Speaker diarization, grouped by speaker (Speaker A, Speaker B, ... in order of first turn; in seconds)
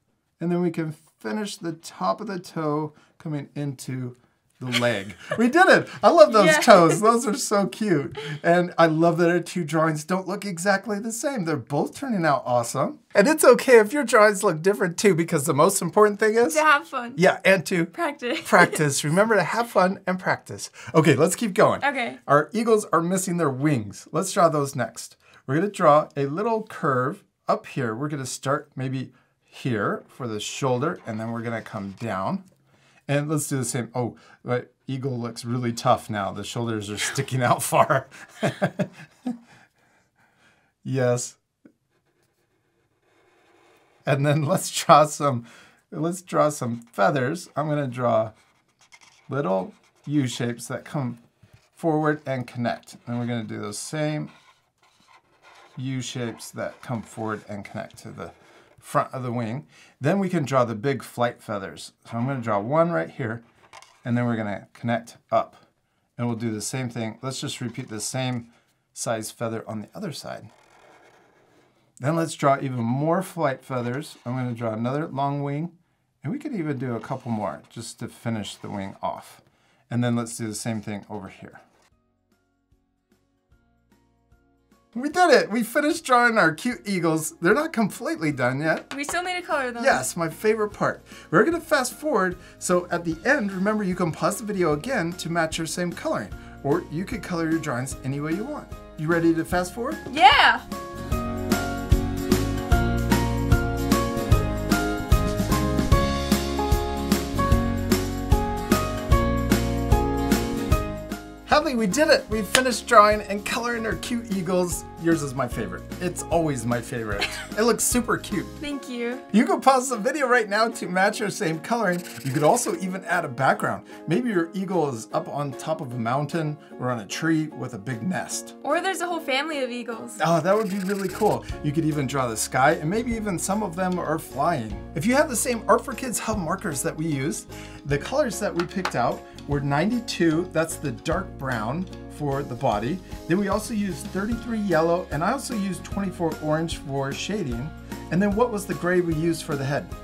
Speaker A: 0.4-16.6, 17.1-32.4, 33.1-39.3, 40.8-41.4, 44.0-48.3, 49.3-51.2, 51.7-54.3, 55.7-63.4, 64.0-65.6, 66.2-70.5, 72.0-81.6, 84.9-88.9, 89.8-100.0, 111.5-118.6, 119.3-128.6, 130.2-149.9
Speaker B: 6.3-7.1, 16.5-17.2, 17.9-18.8, 21.8-22.2, 88.9-90.0, 100.1-100.6, 118.6-119.2, 128.6-130.2